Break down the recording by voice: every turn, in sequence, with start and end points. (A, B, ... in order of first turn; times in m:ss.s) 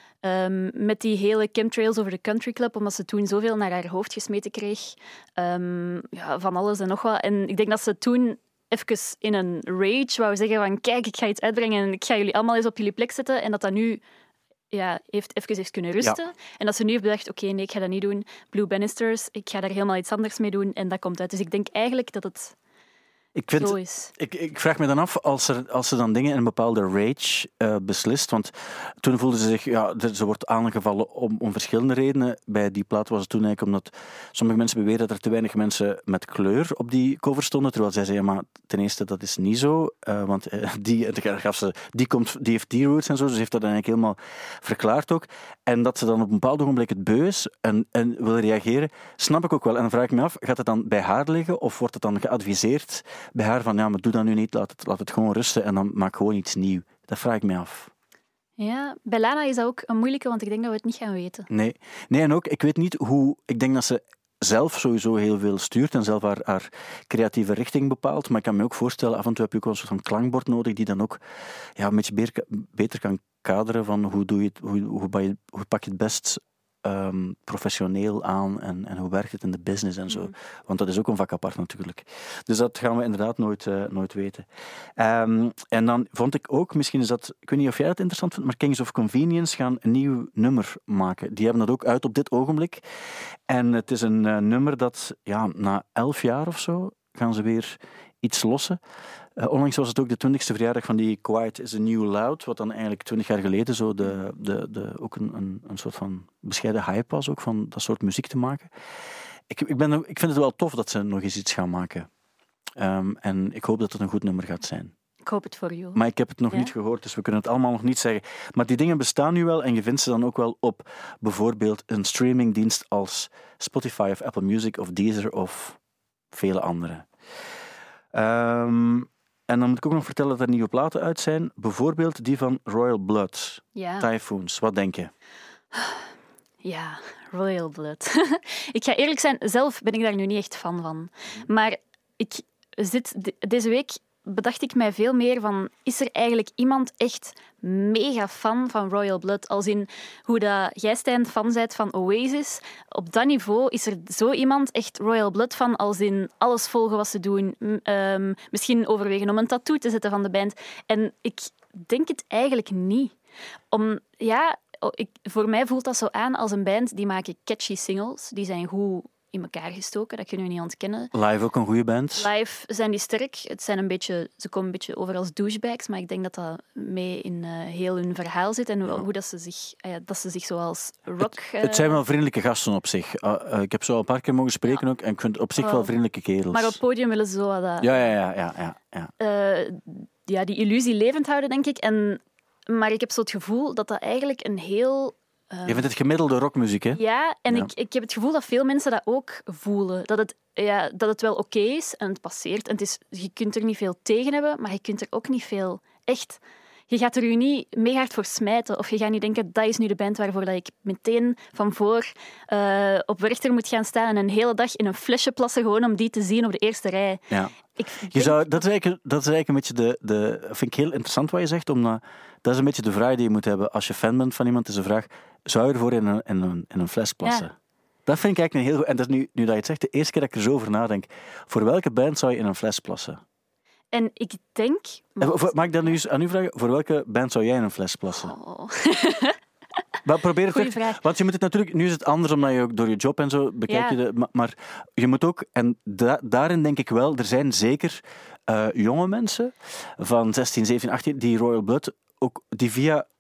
0:00.2-0:14.0 A
0:14.7-0:22.5 A
0:23.4-0:57.9 B
0:23.6-0:24.1 A
0:58.6-1:01.5 A
1:01.5-1:11.2 B
1:11.8-1:32.8 B
1:33.5-1:38.8 B
1:39.4-1:48.7 B
1:49.5-1:52.1 B
1:52.8-1:54.9 B
1:55.2-1:56.0 A
1:55.9-2:05.8 B
2:06.3-2:07.1 B
2:08.1-2:15.1 B
2:13.8-2:14.1 A
2:15.8-2:16.0 A
2:16.6-2:43.1 A
2:43.7-2:51.1 A
2:51.1-2:52.3 B
2:52.2-3:02.0 A
3:01.2-3:06.8 B
3:05.6-3:05.9 A
3:06.5-3:08.1 A
3:07.8-3:09.1 B
3:09.2-3:15.8 A
3:15.6-3:17.7 B
3:16.9-3:37.2 A
3:37.8-3:38.6 A
3:38.1-3:47.5 B
3:48.0-3:53.2 B
3:53.9-3:55.9 A
3:55.2-3:58.3 B
3:58.1-3:59.4 A
4:00.0-4:13.1 B
4:00.5-4:01.0 A
4:03.7-4:04.0 A